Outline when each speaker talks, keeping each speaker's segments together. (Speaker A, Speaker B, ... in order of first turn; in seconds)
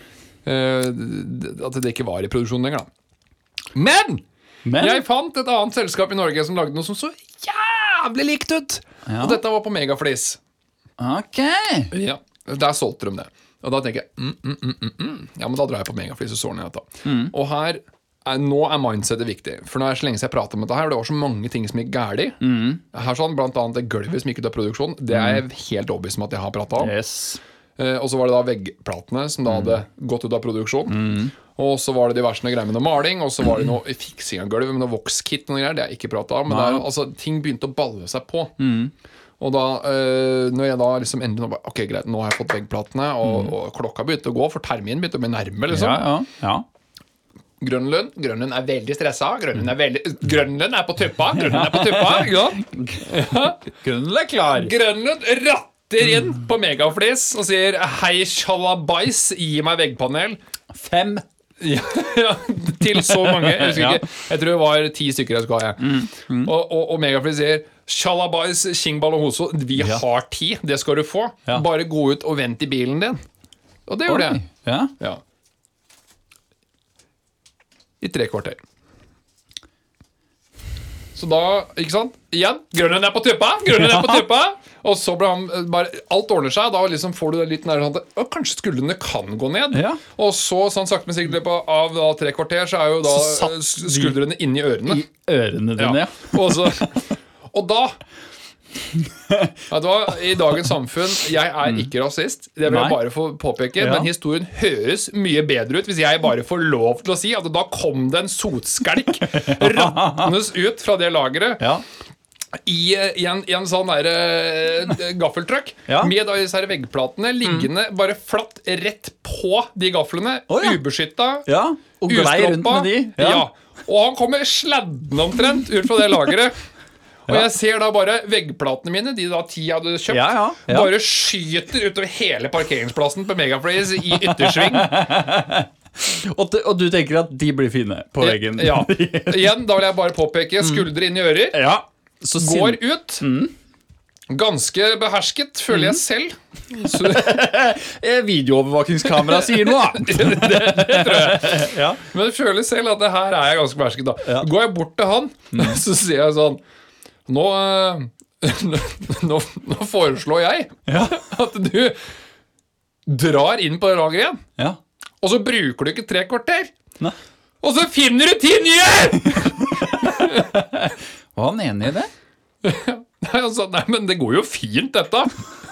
Speaker A: 0.4-2.9, 3.7-4.2, 4.8-10.4, 11.9-22.4, 22.9-26.9, 27.8-38.5, 39.4-46.0, 47.6-53.6, 54.5-60.4, 61.6-73.2, 73.9-74.4, 78.0-78.6, 81.1-95.0, 95.8-98.0, 99.7-111.6, 112.5-121.5, 122.0-126.5, 127.3-134.9, 138.2-141.7, 142.4-143.2, 144.3-147.4, 149.1-156.6, 157.3-161.9, 163.1-164.4, 165.2-166.7, 167.6-170.6, 172.6-175.3
Speaker B: 4.7-5.0, 9.1-9.4, 11.0-11.9, 17.0-17.3, 22.4-22.8, 25.1-25.4, 26.8-27.4, 30.9-31.3, 36.5-36.8, 38.6-38.9, 43.2-43.5, 45.7-46.6, 51.4-54.7, 60.7-61.2, 62.9-64.1, 65.8-66.5, 69.8-70.0, 74.1-74.9, 83.8-84.2, 89.7-90.0, 93.1-94.2, 94.8-96.7, 98.9-99.5, 102.7-103.0, 103.8-104.1, 109.2-110.3, 115.9-116.1, 120.5-120.8, 121.5-123.5, 130.1-130.9, 134.1-139.6, 141.5-143.5, 145.7-146.0, 146.8-152.0, 160.9-161.2, 169.3-172.1